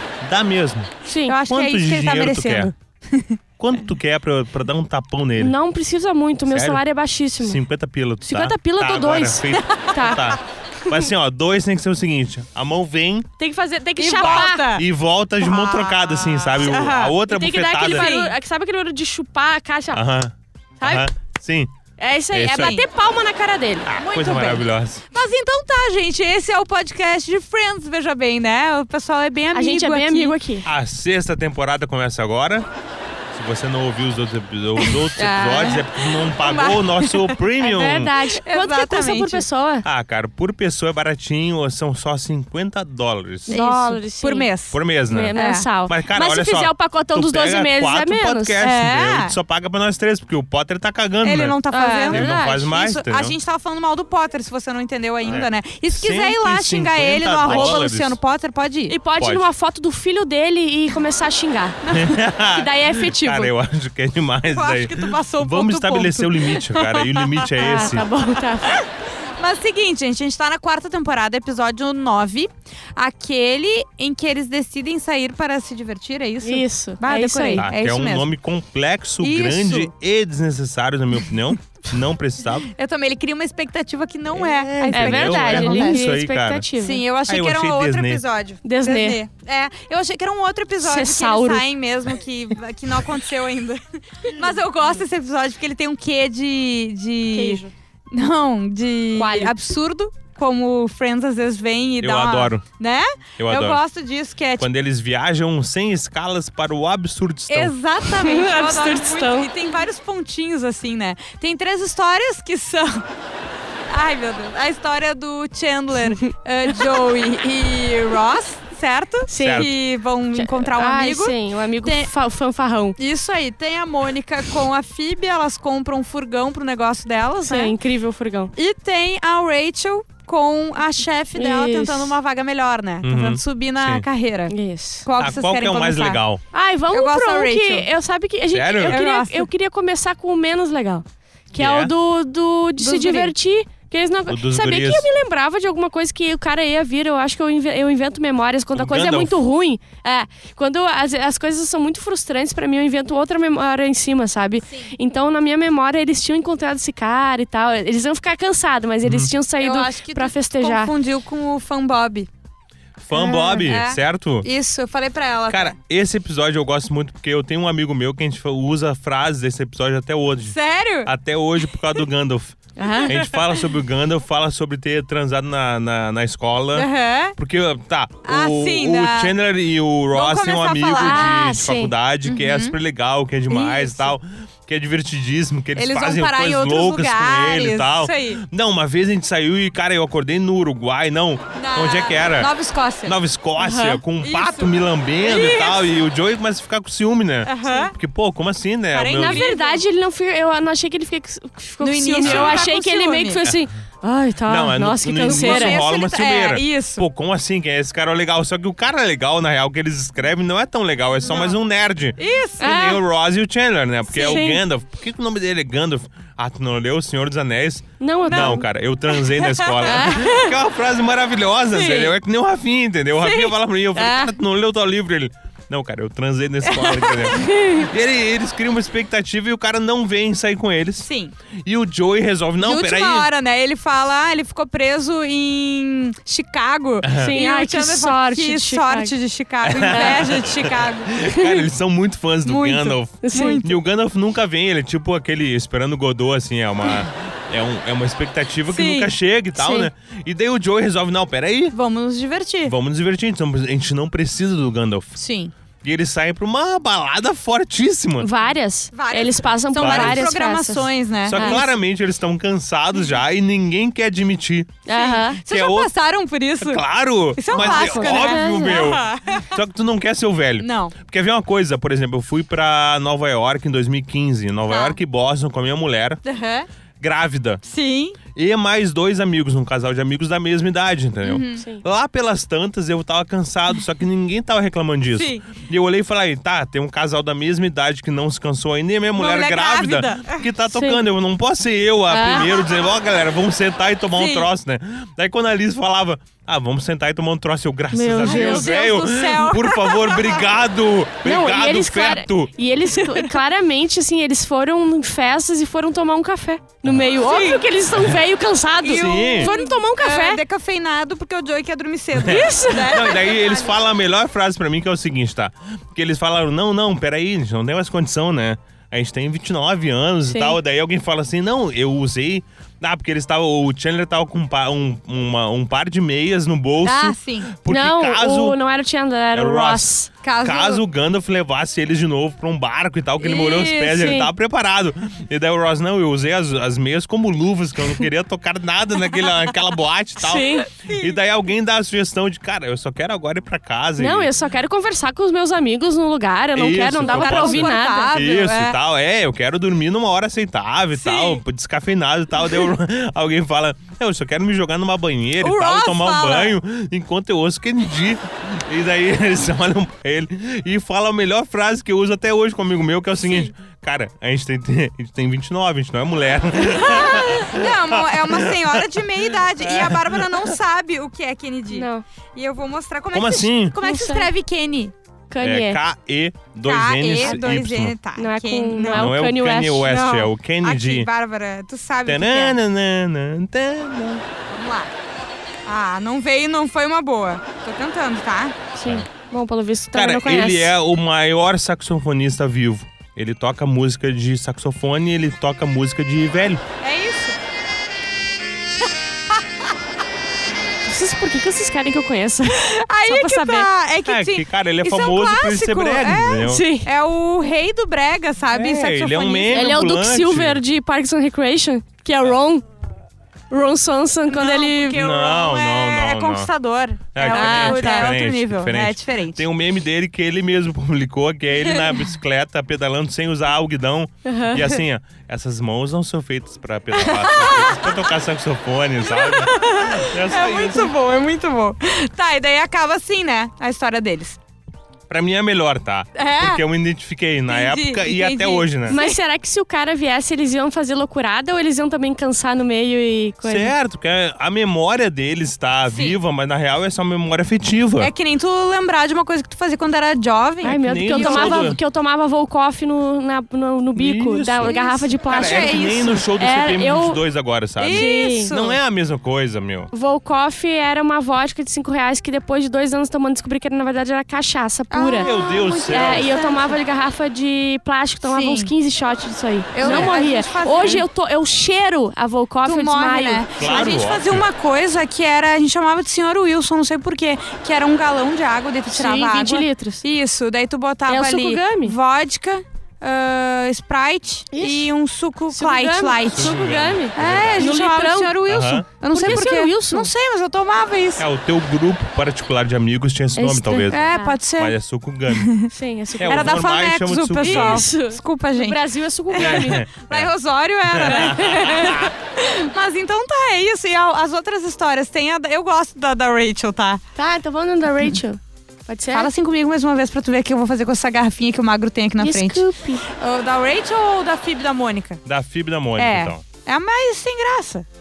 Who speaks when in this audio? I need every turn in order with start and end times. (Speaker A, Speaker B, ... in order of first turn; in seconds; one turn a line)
Speaker A: 0.2-0.9
Speaker B: 1.1-1.4
Speaker C: 1.3-3.4
Speaker A: 1.5-2.7
Speaker A: 3.6-5.5
Speaker B: 5.4-7.6
Speaker A: 6.5-6.8
Speaker A: 7.4-13.3
Speaker B: 8.2-10.3
Speaker C: 9.7-10.2
Speaker B: 13.4-14.7
Speaker C: 14.0-14.9
Speaker A: 14.2-18.1
Speaker C: 15.4-17.2
Speaker B: 16.6-20.0
Speaker C: 17.8-18.3
Speaker A: 19.9-21.7
Speaker B: 20.8-21.1
Speaker B: 22.0-23.9
Speaker A: 22.3-22.8
Speaker C: 22.4-22.9
Speaker A: 23.9-25.1
Speaker C: 24.0-30.3
Speaker B: 29.5-30.7
Speaker A: 30.6-32.7
Speaker A: 33.3-38.1
Speaker B: 35.2-35.8
Speaker C: 35.8-37.4
Speaker B: 37.6-39.9
Speaker C: 38.1-39.4
Speaker A: 39.8-43.6
Speaker B: 43.5-44.5
Speaker C: 43.5-44.8
Speaker A: 44.7-51.6
Speaker B: 45.1-48.6
Speaker C: 45.3-45.7
Speaker C: 48.6-49.4
Speaker C: 51.2-59.0
Speaker B: 51.7-52.7
Speaker A: 52.1-53.3
Speaker A: 55.2-58.2
Speaker B: 57.5-57.8
Speaker B: 58.9-61.8
Speaker A: 59.2-59.5
Speaker C: 61.9-62.2
Speaker A: 61.9-68.1
Speaker B: 62.5-63.5
Speaker C: 64.5-66.6
Speaker B: 67.6-68.7
Speaker C: 69.4-78.3
Speaker B: 76.4-77.7
Speaker A: 77.6-82.7
Speaker C: 79.2-79.9
Speaker C: 82.7-86.0
Speaker A: 84.3-86.7
Speaker B: 84.9-87.0
Speaker C: 86.8-104.7
Speaker A: 87.3-88.2
Speaker B: 88.6-89.2
Speaker B: 90.8-91.7
Speaker B: 97.3-97.7
Speaker B: 99.2-99.5
Speaker A: 102.0-102.7
Speaker A: 103.4-103.8
Speaker A: 104.6-107.7
Speaker C: 107.5-113.0
Speaker B: 108.0-109.7
Speaker C: 113.9-122.1
Speaker B: 119.3-119.8
Speaker A: 119.4-119.7
Speaker B: 120.3-123.0
Speaker C: 123.0-127.7
Speaker B: 127.4-128.5
Speaker C: 128.6-136.2
Speaker B: 131.3-132.2
Speaker A: 133.0-134.1
Speaker B: 134.5-135.1
Speaker A: 135.2-136.4
Speaker B: 136.5-160.9
Speaker C: 136.9-137.9
Speaker A: 138.5-139.0
Speaker C: 138.8-139.5
Speaker A: 141.5-141.9
Speaker C: 142.8-143.3
Speaker A: 144.3-145.1
Speaker A: 148.7-149.4
Speaker A: 159.0-159.3
Speaker C: 159.6-162.3
Speaker A: 163.0-164.5
Speaker C: 163.1-165.8
Speaker A: 165.5-192.5
Speaker C: 170.5-171.1
Speaker B: 172.8-173.1
Speaker C: 172.8-173.4
Speaker C: 176.7-177.3
Speaker C: 178.2-179.3
Speaker C: 180.1-181.4
Speaker B: 181.0-181.9
Speaker C: 182.2-182.8
Speaker C: 183.5-184.1
Speaker C: 185.8-188.4
Speaker C: 191.5-193.2
Speaker A: 193.0-199.4
Speaker B: 193.6-194.0
Speaker C: 194.2-195.9
Speaker C: 197.5-197.9
Speaker B: 197.6-197.9
Speaker C: 198.9-199.8
Speaker B: 199.1-205.8
Speaker C: 201.8-203.4
Speaker A: 202.2-202.7
Speaker A: 204.5-231.1
Speaker C: 205.2-207.0
Speaker C: 211.2-211.6
Speaker C: 212.2-212.7
Speaker B: 212.6-213.0
Speaker B: 214.1-214.6
Speaker B: 218.0-218.7
Speaker C: 218.3-220.2
Speaker B: 219.8-220.6
Speaker C: 221.7-222.1
Speaker C: 223.2-223.5
Speaker B: 223.9-224.3
Speaker C: 226.7-227.2
Speaker B: 227.3-227.9
Speaker C: 231.0-231.3
Speaker A: 231.6-233.3
Speaker C: 232.6-241.6
Speaker A: 237.0-237.4
Speaker B: 237.1-239.1
Speaker A: 239.6-251.8
Speaker B: 239.9-240.3
Speaker C: 242.4-243.8
Speaker B: 243.2-243.6
Speaker C: 248.7-249.1
Speaker B: 249.6-249.9
Speaker C: 251.7-252.7
Speaker A: 252.7-255.2
Speaker C: 255.2-255.5
Speaker A: 255.8-258.3
Speaker B: 258.2-261.6
Speaker C: 258.9-261.6
Speaker A: 259.8-260.3
Speaker A: 261.2-264.8
Speaker B: 264.9-265.4
Speaker C: 264.9-269.5
Speaker A: 265.5-265.9
Speaker A: 266.6-276.2
Speaker B: 267.5-269.0
Speaker C: 270.6-270.9
Speaker C: 274.7-275.0
Speaker C: 276.2-276.7
Speaker A: 277.0-277.6
Speaker C: 277.6-278.2
Speaker A: 278.4-302.5
Speaker C: 281.2-281.6
Speaker B: 281.6-281.8
Speaker C: 285.1-285.6
Speaker C: 289.1-290.5
Speaker B: 290.6-291.0
Speaker B: 292.1-292.5
Speaker C: 294.1-294.5
Speaker B: 297.9-298.8
Speaker C: 298.2-300.4
Speaker B: 301.2-310.4
Speaker A: 306.8-307.1
Speaker C: 307.2-307.6
Speaker A: 307.9-308.2
Speaker C: 308.8-313.2
Speaker A: 308.9-309.5
Speaker A: 312.1-328.6
Speaker B: 312.2-313.8
Speaker B: 320.3-320.6
Speaker C: 326.8-327.5
Speaker B: 327.7-330.1
Speaker A: 329.3-344.3
Speaker C: 330.2-330.8
Speaker C: 333.2-334.0
Speaker B: 333.9-334.3
Speaker B: 340.2-340.7
Speaker C: 340.9-341.2
Speaker B: 344.0-348.1
Speaker A: 346.6-370.5
Speaker C: 347.1-348.8
Speaker C: 350.9-351.4
Speaker C: 355.4-356.6
Speaker C: 363.2-363.5
Speaker C: 366.7-374.9
Speaker B: 371.7-372.0
Speaker A: 373.1-373.8
Speaker B: 373.8-374.3
Speaker B: 375.3-375.8
Speaker A: 375.4-378.0
Speaker C: 376.6-379.1
Speaker B: 377.2-377.4
Speaker B: 378.1-379.9
Speaker A: 378.9-381.1
Speaker C: 379.8-382.6
Speaker A: 382.0-384.2
Speaker C: 384.5-384.9
Speaker C: 385.6-388.6
Speaker B: 388.7-390.8
Speaker A: 389.9-396.6
Speaker C: 396.8-397.4
Speaker B: 400.9-403.7
Speaker C: 402.5-409.7
Speaker A: 404.0-406.6
Speaker B: 406.5-406.9
Speaker A: 408.5-410.6
Speaker B: 409.5-412.6
Speaker B: 413.5-415.0
Speaker C: 414.3-419.4
Speaker A: 414.9-416.5
Speaker A: 417.1-430.9
Speaker B: 417.2-418.1
Speaker B: 424.2-424.8
Speaker C: 427.0-428.0
Speaker C: 429.0-434.4
Speaker A: 435.1-439.0
Speaker C: 436.1-436.6
Speaker C: 437.5-439.1
Speaker B: 438.9-443.7
Speaker A: 443.4-448.1
Speaker C: 445.9-446.2
Speaker C: 448.0-451.7
Speaker B: 450.6-455.8
Speaker A: 450.8-451.8
Speaker A: 453.9-459.9
Speaker C: 454.6-456.2
Speaker B: 456.4-457.2
Speaker C: 457.8-458.8
Speaker B: 457.9-458.5
Speaker B: 459.9-473.4
Speaker C: 464.9-466.8
Speaker A: 465.2-466.3
Speaker C: 468.2-468.7
Speaker C: 469.7-471.1
Speaker A: 469.8-470.1
Speaker C: 472.6-491.3
Speaker A: 473.6-474.4
Speaker B: 478.9-480.0
Speaker B: 481.1-481.9
Speaker B: 484.5-484.9
Speaker B: 485.5-488.4
Speaker A: 486.3-487.8
Speaker A: 488.4-489.5
Speaker B: 489.0-490.1
Speaker A: 491.2-495.5
Speaker B: 493.4-494.4
Speaker C: 493.9-494.8
Speaker C: 495.3-495.7
Speaker B: 495.7-496.6
Speaker A: 496.2-497.9
Speaker C: 496.3-498.8
Speaker B: 497.4-499.8
Speaker C: 499.3-507.0
Speaker A: 499.4-500.3
Speaker A: 500.8-502.1
Speaker B: 501.1-501.9
Speaker B: 507.1-509.3
Speaker C: 509.1-515.2
Speaker B: 512.2-513.0
Speaker A: 515.2-516.4
Speaker C: 516.0-517.9